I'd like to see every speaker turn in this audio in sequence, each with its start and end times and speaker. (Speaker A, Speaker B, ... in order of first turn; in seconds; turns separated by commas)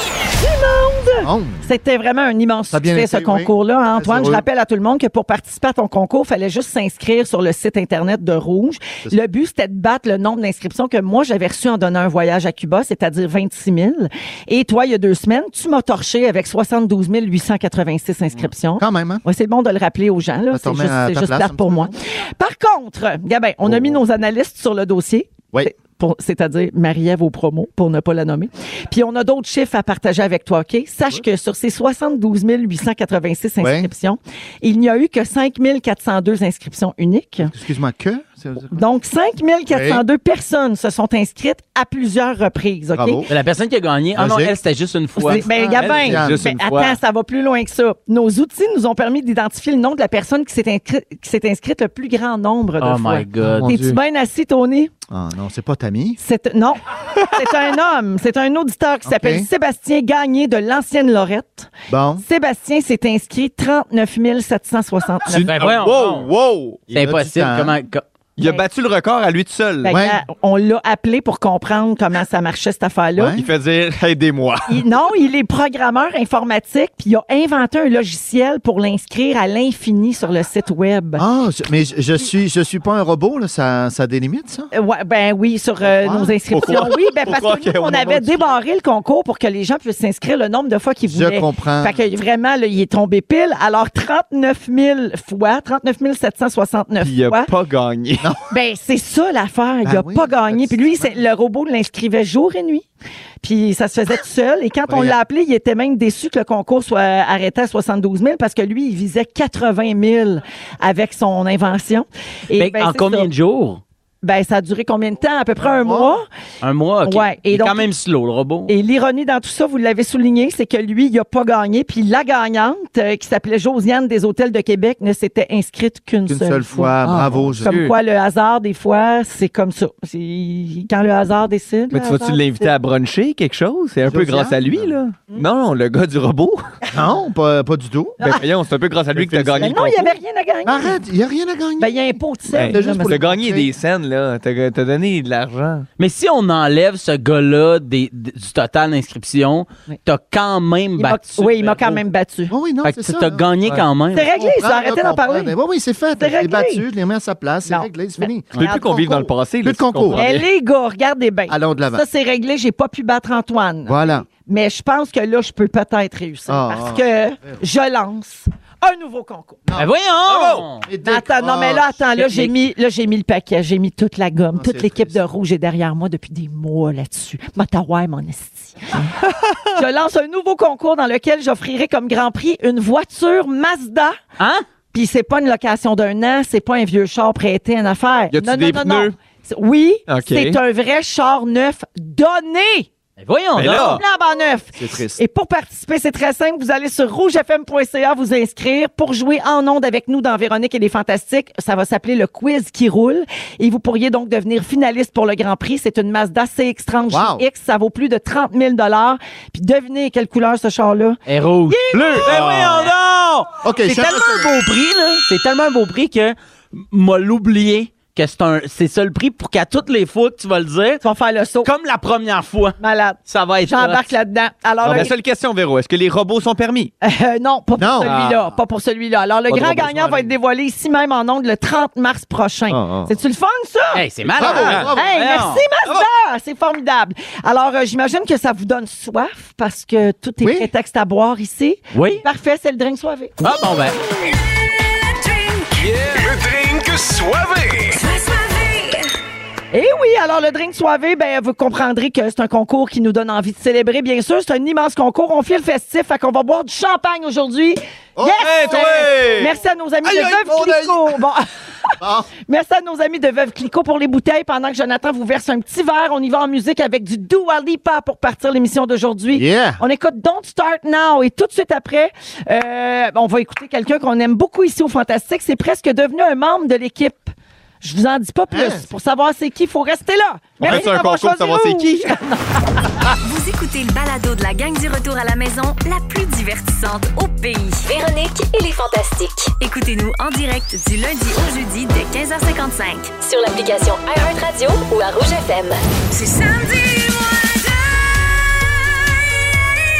Speaker A: 0.3-37.5, Speaker B: 1.2-1.7, Speaker B: 2.7-4.4, Speaker B: 18.8-19.2, Speaker B: 20.5-21.9, Speaker B: 33.6-33.9, Speaker B: 37.4-38.8, Speaker A: 38.7-43.3, Speaker B: 39.7-40.0, Speaker B: 42.9-43.3, Speaker C: 43.3-45.8, Speaker B: 44.1-44.5, Speaker A: 45.2-54.9, Speaker D: 45.5-47.0, Speaker B: 45.7-46.5, Speaker C: 52.8-53.8, Speaker B: 53.4-53.9, Speaker B: 55.1-56.2, Speaker A: 56.2-61.7, Speaker B: 59.0-59.5, Speaker B: 61.9-62.2, Speaker A: 62.2-65.7, Speaker D: 65.3-66.8, Speaker C: 65.3-66.3, Speaker C: 66.9-68.0, Speaker B: 66.9-67.7, Speaker D: 68.4-70.0, Speaker A: 69.8-73.4, Speaker B: 69.9-70.2, Speaker B: 73.2-73.5, Speaker D: 73.3-74.8, Speaker A: 74.7-81.2, Speaker B: 81.2-84.7, Speaker A: 84.7-97.5, Speaker B: 85.8-86.3, Speaker D: 86.5-88.6, Speaker B: 91.1-92.0, Speaker D: 97.0-98.3, Speaker A: 98.5-102.8, Speaker B: 99.8-101.2, Speaker A: 103.4-113.3, Speaker B: 104.9-105.2, Speaker C: 112.5-113.8, Speaker A: 114.2-116.2, Speaker B: 115.6-116.1, Speaker C: 116.6-118.7, Speaker A: 117.0-117.9, Speaker A: 118.7-126.9, Speaker B: 126.3-127.8, Speaker D: 127.0-127.9, Speaker A: 127.6-132.7, Speaker D: 131.9-136.6, Speaker B: 134.1-134.9, Speaker B: 136.9-138.4, Speaker D: 138.2-140.1, Speaker B: 139.1-139.9, Speaker A: 139.6-141.0, Speaker B: 140.6-143.7, Speaker A: 141.8-143.2, Speaker D: 142.5-145.9, Speaker C: 146.0-152.0, Speaker A: 151.0-152.5, Speaker B: 152.5-153.4, Speaker C: 152.8-154.3, Speaker A: 154.1-155.5, Speaker B: 154.3-160.2, Speaker A: 156.2-156.8, Speaker A: 157.7-158.3, Speaker D: 158.5-160.4, Speaker A: 160.1-169.6, Speaker B: 161.5-162.0, Speaker B: 163.9-164.3, Speaker B: 166.5-167.6, Speaker B: 169.7-169.9, Speaker C: 169.7-170.9, Speaker D: 170.2-170.7, Speaker B: 170.8-172.0, Speaker A: 171.0-179.0, Speaker C: 172.2-172.5, Speaker B: 174.5-175.2, Speaker D: 179.0-179.8, Speaker A: 179.7-184.2, Speaker C: 184.4-184.6, Speaker A: 184.9-192.9, Speaker D: 188.3-189.1, Speaker D: 190.1-190.6, Speaker C: 193.2-194.0, Speaker D: 193.6-194.0, Speaker A: 193.6-212.3, Speaker B: 194.8-195.2, Speaker B: 207.1-207.4, Speaker C: 211.3-221.0, Speaker D: 212.2-212.9, Speaker B: 213.6-214.5, Speaker A: 221.0-221.7, Speaker C: 221.6-224.0, Speaker A: 222.8-225.1, Speaker D: 224.8-226.9, Speaker A: 227.0-243.5, Speaker B: 227.8-228.2, Speaker D: 228.1-228.3, Speaker D: 229.5-230.3, Speaker B: 232.7-233.1, Speaker C: 233.9-235.6, Speaker B: 234.3-235.1, Speaker D: 234.4-234.9, Speaker B: 240.4-240.7, Speaker C: 241.9-242.2, Speaker C: 243.4-244.0, Speaker E: 244.9-245.9, Speaker F: 246.0-248.0, Speaker E: 247.9-249.1, Speaker A: 249.7-261.5, Speaker B: 258.1-258.5, Speaker D: 258.4-259.5, Speaker D: 260.0-261.0, Speaker B: 262.0-262.3, Speaker A: 262.4-282.9, Speaker B: 269.3-269.8, Speaker B: 278.5-278.9, Speaker D: 280.6-282.2, Speaker E: 283.2-287.9, Speaker G: 287.9-289.5, Speaker E: 289.6-293.2, Speaker G: 293.2-295.8, Speaker E: 296.1-298.1